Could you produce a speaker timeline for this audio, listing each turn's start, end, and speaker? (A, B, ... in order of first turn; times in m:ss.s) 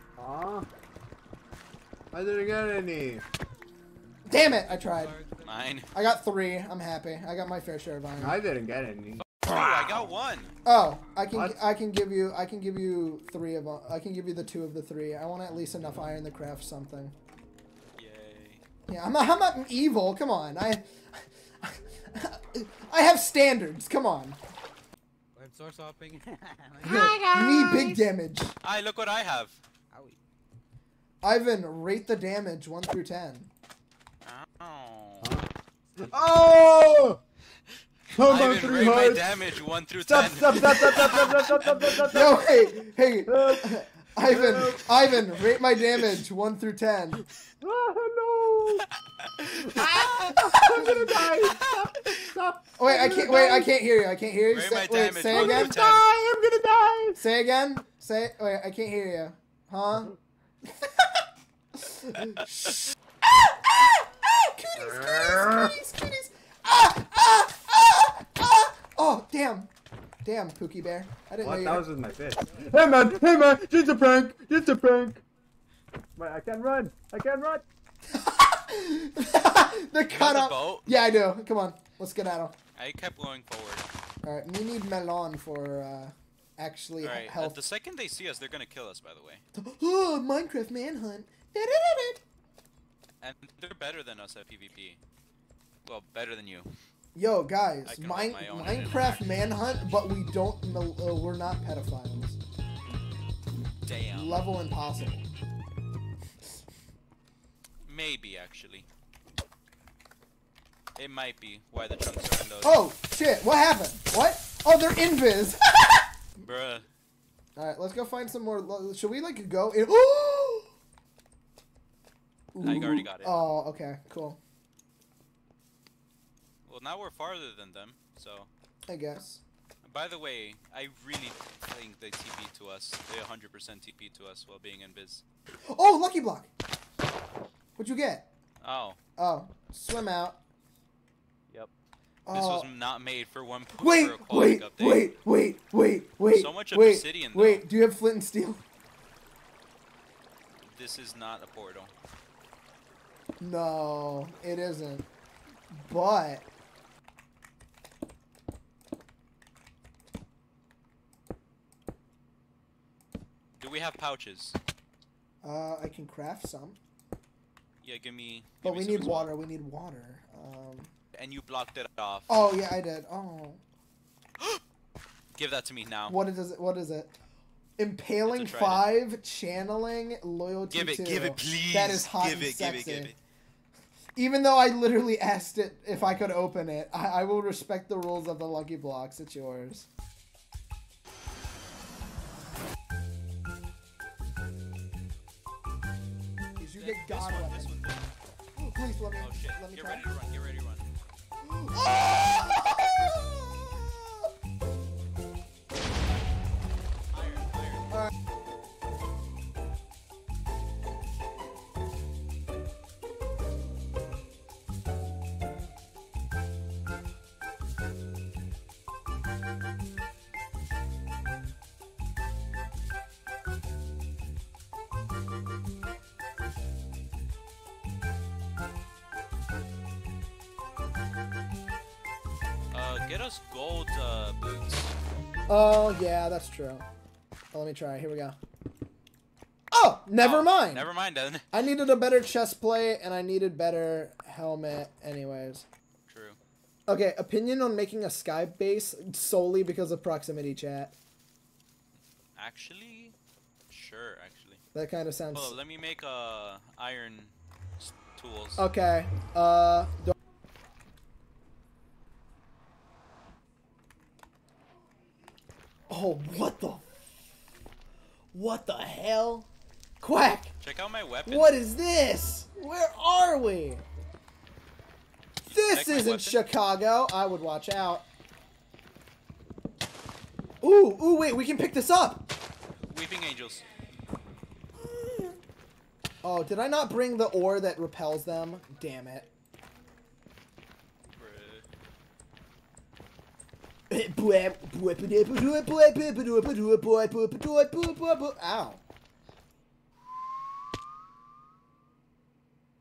0:00.2-0:00.7 A
0:02.1-0:03.2 A
0:04.2-0:05.1 B
0:04.3-0:05.8 C
0:05.4-0:05.9 D
0:05.9-0:08.4 B
0:08.2-0:10.2 A
0:09.4-0:10.5 D
0:10.6-0:17.2 B
0:11.3-0:11.6 A
0:18.0-0:18.6 D
0:18.9-0:24.4 B
0:25.3-0:27.3 C
0:26.8-0:28.0 A
0:26.8-0:28.5 B
0:28.6-0:29.6 D
0:29.9-0:30.2 C
0:31.2-0:33.5 B
0:34.2-0:35.3 D
0:35.2-0:37.2 A
0:38.1-0:39.3 A
0:38.2-0:42.0 D
0:40.0-0:45.0 A
0:42.1-0:47.2 B
0:47.6-0:48.8 A
0:49.2-0:50.7 D
0:49.5-0:53.7 A
0:50.8-0:51.1 B
0:51.4-0:52.3 D
0:52.8-0:55.7 B
0:54.5-0:56.0 D
0:55.3-0:57.2 A
0:57.2-1:00.1 B
1:00.7-1:01.2 B
1:01.8-1:09.7 B
1:04.8-1:05.8 A
1:10.2-1:11.8 B
1:11.4-1:15.2 A
1:16.2-1:17.6 A
1:18.1-1:22.5 B
1:20.1-1:20.9 D
1:22.8-1:23.8 D
1:24.2-1:27.6 B
1:27.0-1:29.4 D
1:29.5-1:32.2 B
1:33.2-1:35.0 D
1:35.8-1:36.7 D
1:37.1-1:42.4 B
1:37.8-1:40.1 D
1:43.8-1:44.4 D
1:44.1-1:45.2 B
1:47.8-1:48.9 D
1:51.0-1:52.8 D
1:52.6-1:55.9 B
1:56.4-1:56.8 D
1:57.6-2:00.7 B
2:02.5-2:04.4 B
2:02.6-2:03.5 D
2:06.6-2:08.5 D
2:08.9-2:09.4 B
2:09.8-2:15.2 D
2:15.7-2:16.5 B
2:17.8-2:18.2 B
2:18.6-2:19.0 D
2:19.2-2:20.4 B
2:22.3-2:22.7 B
2:22.3-2:25.1 D
2:23.8-2:28.6 B
2:26.3-2:27.6 D
2:30.6-2:31.9 D
2:33.4-2:35.1 B
2:35.7-2:36.4 B
2:43.6-2:44.6 D
2:45.4-2:46.8 B
2:47.8-2:49.3 D
2:48.6-2:50.9 B
2:51.1-2:52.3 D
2:52.3-2:53.6 B
2:55.3-2:56.1 D
2:56.1-2:57.1 B
2:57.8-3:03.1 B
2:58.2-2:58.9 D
3:00.7-3:03.2 D
3:04.2-3:09.9 B
3:16.6-3:17.7 B
3:16.8-3:18.1 D
3:18.6-3:20.0 B
3:19.2-3:20.9 D
3:21.4-3:24.1 B
3:27.1-3:28.0 D
3:52.7-3:55.0 D
3:55.5-3:56.8 B
3:57.5-3:58.4 B
3:59.7-4:00.9 B
4:00.2-4:01.4 D
4:01.5-4:05.6 B
4:06.1-4:06.4 D
4:06.9-4:10.9 B
4:12.4-4:13.1 D
4:13.7-4:14.6 D
4:14.7-4:15.6 B
4:15.3-4:18.6 D
4:18.6-4:20.1 B
4:25.9-4:26.8 B
4:28.3-4:29.5 B
4:30.0-4:30.5 B
4:30.6-4:31.6 D
4:31.2-4:33.8 B
4:35.4-4:36.4 D
4:35.5-4:38.0 B
4:40.6-4:42.3 B
4:42.9-4:43.6 D
4:44.8-4:45.4 B
4:46.2-4:49.3 B
4:51.1-4:51.6 D
4:53.9-4:58.8 B